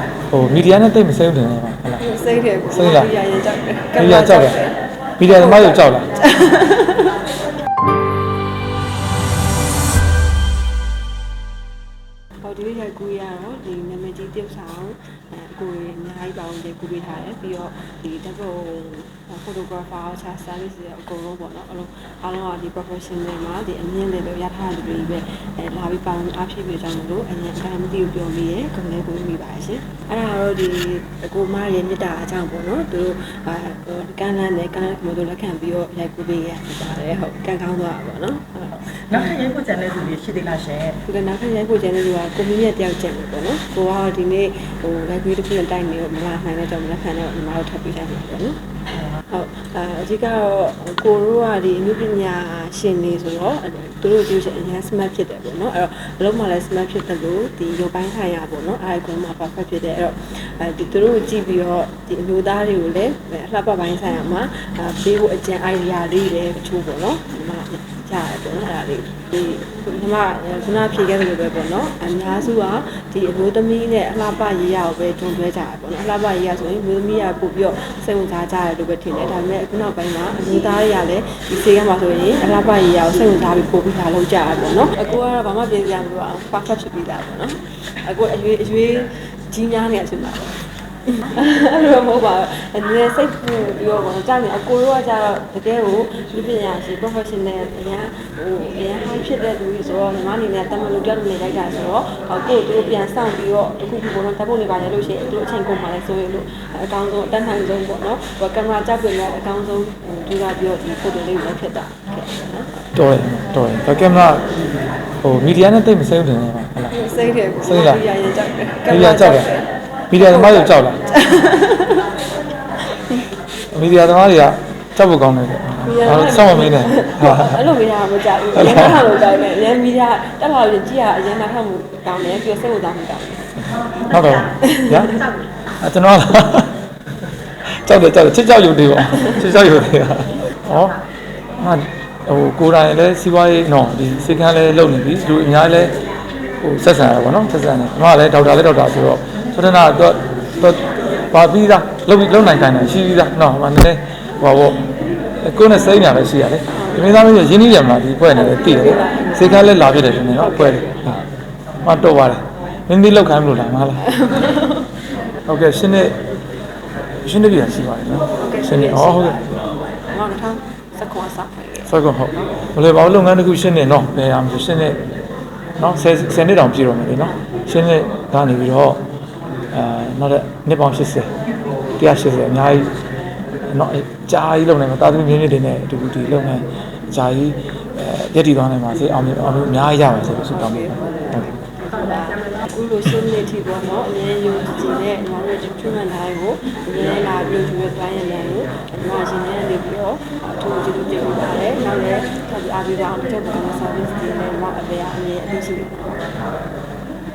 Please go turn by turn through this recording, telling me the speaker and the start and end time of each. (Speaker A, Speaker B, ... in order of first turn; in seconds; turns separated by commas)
Speaker A: 0.3-2.0, Speaker B: 2.0-7.2, Speaker A: 2.7-3.1, Speaker A: 4.0-4.6, Speaker A: 5.2-6.1, Speaker B: 12.4-38.9, Speaker C: 39.1-41.0, Speaker B: 41.0-48.6, Speaker B: 49.3-112.9, Speaker A: 113.0-114.5, Speaker A: 115.2-117.0, Speaker B: 116.9-122.1, Speaker A: 117.6-118.0, Speaker A: 118.9-119.5, Speaker A: 120.1-121.0, Speaker B: 122.9-123.3, Speaker A: 123.7-127.7, Speaker B: 125.8-133.5, Speaker A: 128.5-129.0, Speaker A: 133.9-135.2, Speaker B: 134.5-135.3, Speaker A: 135.8-136.8, Speaker A: 137.7-141.0, Speaker A: 141.6-145.9, Speaker A: 146.6-161.2, Speaker B: 156.7-157.2, Speaker B: 158.3-161.2, Speaker A: 161.8-164.1, Speaker B: 164.0-164.9, Speaker A: 165.5-166.2, Speaker A: 167.2-169.6, Speaker B: 168.4-171.9, Speaker A: 171.9-175.0, Speaker A: 175.8-179.0, Speaker A: 179.7-181.3, Speaker A: 182.0-182.9, Speaker A: 183.7-191.5, Speaker B: 190.6-206.3